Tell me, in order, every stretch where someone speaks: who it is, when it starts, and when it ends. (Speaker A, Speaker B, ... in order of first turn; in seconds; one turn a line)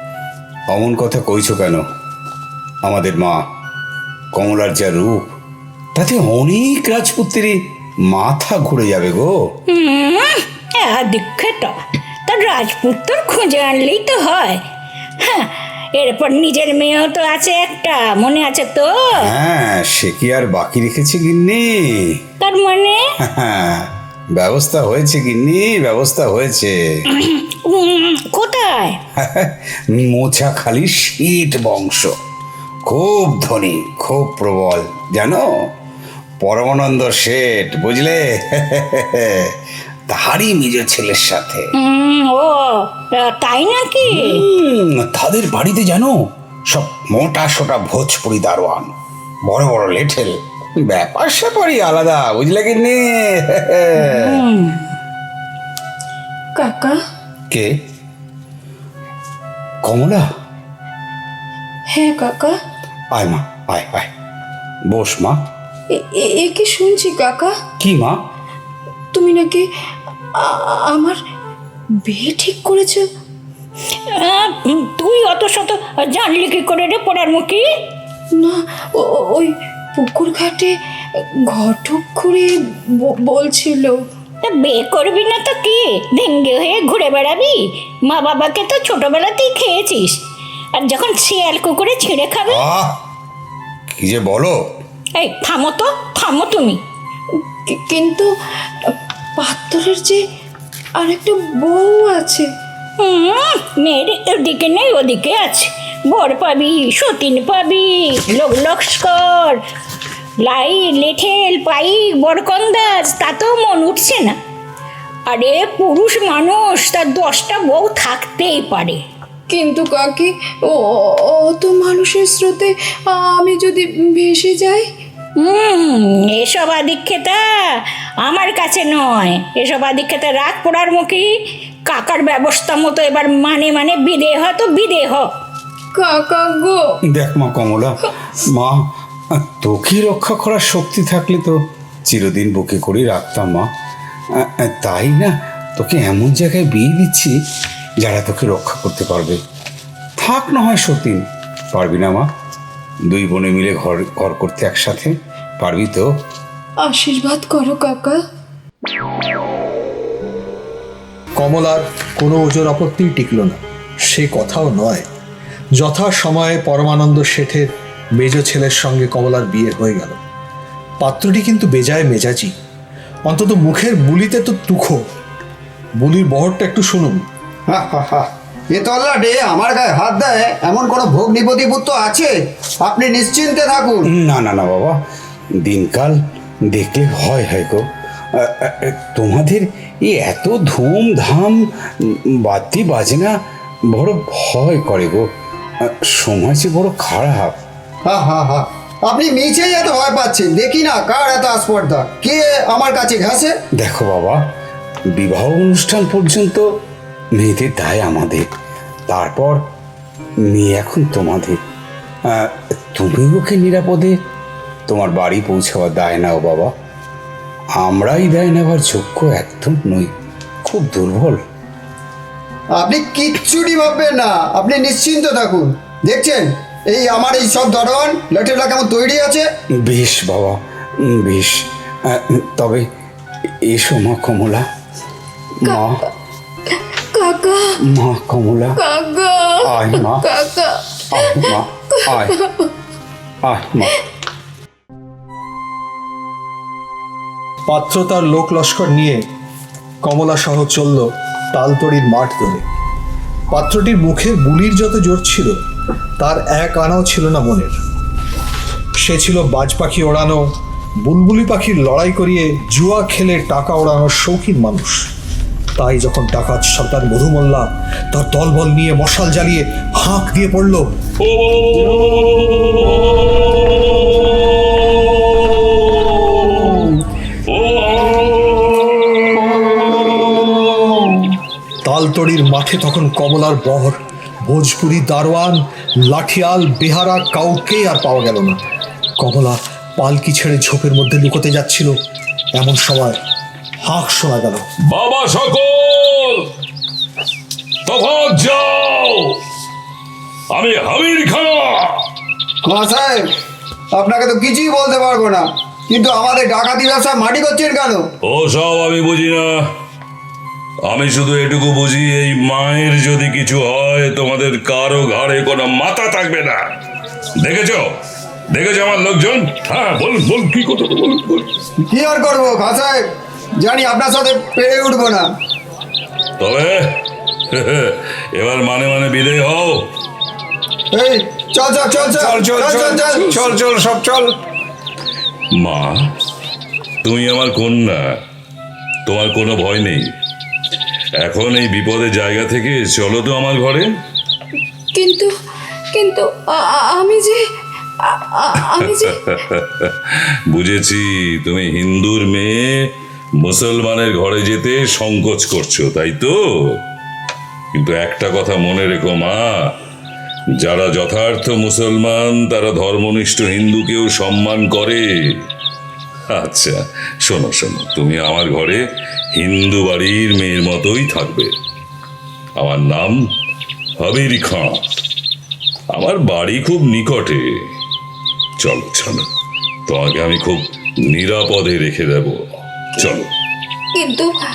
Speaker A: 0.7-1.8
Speaker A: 2.8-3.4
Speaker A: 4.3-5.3
Speaker A: 6.0-9.3
Speaker B: 9.7-14.6
Speaker B: 15.2-19.3
Speaker A: 19.1-22.2
Speaker B: 22.4-23.0
Speaker A: 23.3-26.8
Speaker B: 27.2-29.0
Speaker A: 29.2-32.1
Speaker A: 32.8-35.4
Speaker A: 36.4-39.5
Speaker A: 40.1-41.7
Speaker B: 41.8-44.4
Speaker A: 44.0-48.9
Speaker A: 49.5-54.5
Speaker B: 54.0-54.9
Speaker C: 56.5-57.0
Speaker A: 59.8-60.3
Speaker C: 61.9-62.5
Speaker A: 63.1-64.1
Speaker A: 64.9-65.5
Speaker C: 65.9-67.5
Speaker A: 67.8-68.2
Speaker C: 69.1-69.7
Speaker C: 70.4-71.2
Speaker C: 72.0-73.0
Speaker B: 74.1-77.7
Speaker C: 78.4-80.7
Speaker C: 81.5-84.0
Speaker B: 84.4-90.2
Speaker B: 90.7-92.6
Speaker A: 92.5-93.0
Speaker A: 94.0-94.5
Speaker B: 95.2-96.8
Speaker C: 97.7-98.3
Speaker C: 98.8-100.2
Speaker C: 101.0-102.5
Speaker B: 103.0-109.6
Speaker B: 110.4-114.3
Speaker B: 115.3-119.0
Speaker C: 119.5-124.9
Speaker B: 125.4-131.3
Speaker B: 131.8-135.3
Speaker C: 135.9-136.8
Speaker A: 137.1-143.7
Speaker A: 144.4-147.3
Speaker A: 148.0-149.4
Speaker A: 150.2-152.3
Speaker A: 153.1-156.1
Speaker C: 156.8-158.2
Speaker D: 161.4-165.1
Speaker D: 165.8-170.2
Speaker D: 171.0-172.5
Speaker D: 173.3-175.0
Speaker D: 176.0-177.2
Speaker E: 177.7-184.1
Speaker A: 184.1-185.0
Speaker A: 185.6-186.2
Speaker A: 186.7-193.4
Speaker A: 193.9-195.3
Speaker A: 195.8-197.6
Speaker E: 198.1-203.6
Speaker A: 203.8-204.5
Speaker A: 205.1-206.7
Speaker A: 207.3-208.5
Speaker A: 209.1-209.6
Speaker A: 210.5-211.6
Speaker A: 212.3-214.2
Speaker A: 214.9-216.7
Speaker A: 217.8-220.1
Speaker A: 220.6-221.4
Speaker E: 222.8-229.5
Speaker A: 229.8-232.8
Speaker A: 233.7-234.7
Speaker A: 235.6-236.0
Speaker C: 235.6-235.9
Speaker C: 236.7-237.7
Speaker A: 237.8-238.8
Speaker C: 238.8-242.7
Speaker A: 239.7-240.2
Speaker A: 241.1-242.3
Speaker A: 243.4-243.9
Speaker D: 247.7-249.2
Speaker D: 250.0-252.6
Speaker D: 253.5-255.5
Speaker D: 256.2-257.8
Speaker D: 259.0-260.4
Speaker D: 261.0-265.1
Speaker D: 265.8-270.9
Speaker F: 271.2-276.9
Speaker F: 277.5-280.8
Speaker D: 281.8-288.6
Speaker D: 289.2-291.9
Speaker D: 292.5-293.2
Speaker D: 293.8-294.6
Speaker F: 294.9-296.5
Speaker F: 297.9-299.4
Speaker F: 300.5-302.0
Speaker E: 302.6-303.3
Speaker E: 303.9-308.1
Speaker F: 308.3-309.5
Speaker F: 310.9-316.6
Speaker F: 317.4-317.9
Speaker F: 318.5-321.5
Speaker E: 321.9-323.1
Speaker E: 323.6-325.3
Speaker F: 326.4-327.0
Speaker F: 327.5-329.9
Speaker E: 330.9-334.3
Speaker A: 332.4-332.8
Speaker F: 335.6-336.0
Speaker F: 337.0-338.1
Speaker F: 339.1-340.1
Speaker F: 341.2-343.9
Speaker C: 344.9-345.3
Speaker C: 345.9-347.4
Speaker C: 348.1-349.2
Speaker F: 348.8-352.7
Speaker F: 353.4-356.8
Speaker F: 357.7-359.6
Speaker F: 360.6-365.1
Speaker F: 366.3-368.8
Speaker F: 369.3-371.5
Speaker F: 372.6-373.2
Speaker F: 374.0-374.8
Speaker F: 375.9-377.5
Speaker F: 378.6-379.2
Speaker F: 379.9-383.3
Speaker C: 383.9-384.3